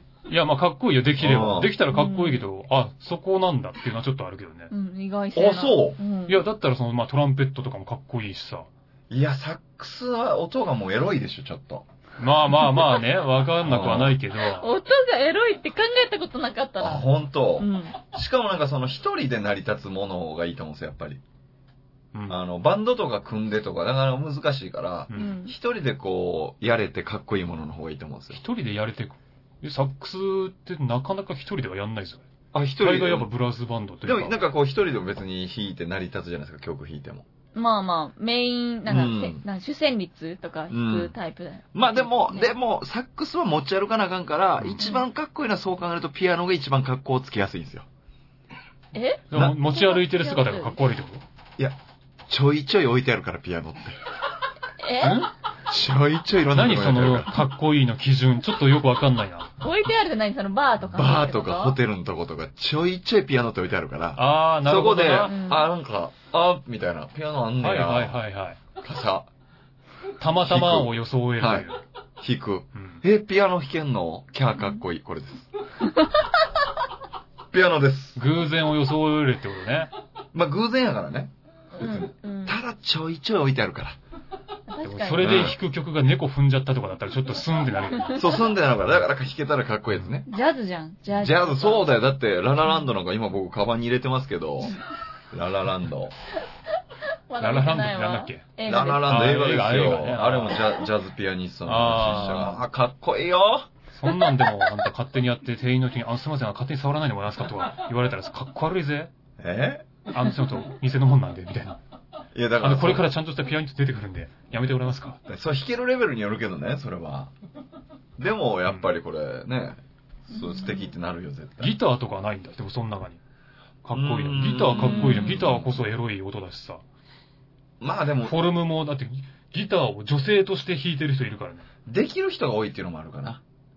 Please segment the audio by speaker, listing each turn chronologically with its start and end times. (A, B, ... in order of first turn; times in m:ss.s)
0:00.3-0:04.7 A
0:01.2-0:01.8 B
0:01.9-0:02.4 C
0:04.7-0:06.4 C
0:05.3-0:06.0 B
0:06.3-0:08.7 A
0:09.1-0:11.8 B
0:12.2-0:14.7 A
0:13.6-0:14.2 B
0:14.4-0:18.0 C
0:16.8-0:21.2 B
0:22.1-0:22.4 A
0:22.3-0:28.4 B
0:25.1-0:25.4 A
0:25.1-0:25.5 C
0:28.3-0:32.2 A
0:32.5-0:33.3 B
0:32.8-0:34.4 A
0:34.0-0:37.2 B
0:37.5-0:42.5 C
0:38.9-0:39.4 B
0:40.7-0:41.1 B
0:41.7-0:47.9 B
0:48.9-0:50.8 C
0:49.3-0:51.2 A
0:52.3-0:54.0 B
0:54.8-0:55.2 C
0:55.0-0:55.3 A
0:55.7-0:57.3 B
0:56.5-0:59.5 A
0:59.6-1:01.8 C
1:00.9-1:08.2 B
1:04.2-1:05.3 A
1:05.2-1:05.6 C
1:07.6-1:08.6 A
1:08.8-1:09.3 B
1:10.2-1:11.8 A
1:10.4-1:11.6 B
1:12.2-1:15.5 B
1:12.7-1:13.0 A
1:17.5-1:18.2 B
1:18.1-1:19.9 A
1:20.3-1:24.0 B
1:21.7-1:22.6 C
1:24.7-1:25.5 C
1:24.8-1:28.2 A
1:25.2-1:25.6 B
1:28.1-1:30.3 B
1:30.3-1:31.9 C
1:31.1-1:34.8 B
1:35.3-1:36.1 B
1:37.3-1:39.4 C
1:37.4-1:40.6 A
1:38.6-1:43.7 B
1:41.6-1:42.6 A
1:43.9-1:49.1 A
1:49.4-1:49.9 B
1:50.1-1:51.8 A
1:52.3-1:53.1 B
1:52.6-1:55.2 A
1:55.3-1:57.3 B
1:58.2-2:01.7 B
2:00.3-2:00.9 C
2:01.6-2:03.2 A
2:03.8-2:06.8 A
2:03.9-2:05.8 B
2:04.8-2:05.4 C
2:07.8-2:08.4 B
2:08.2-2:11.7 A
2:11.8-2:13.4 B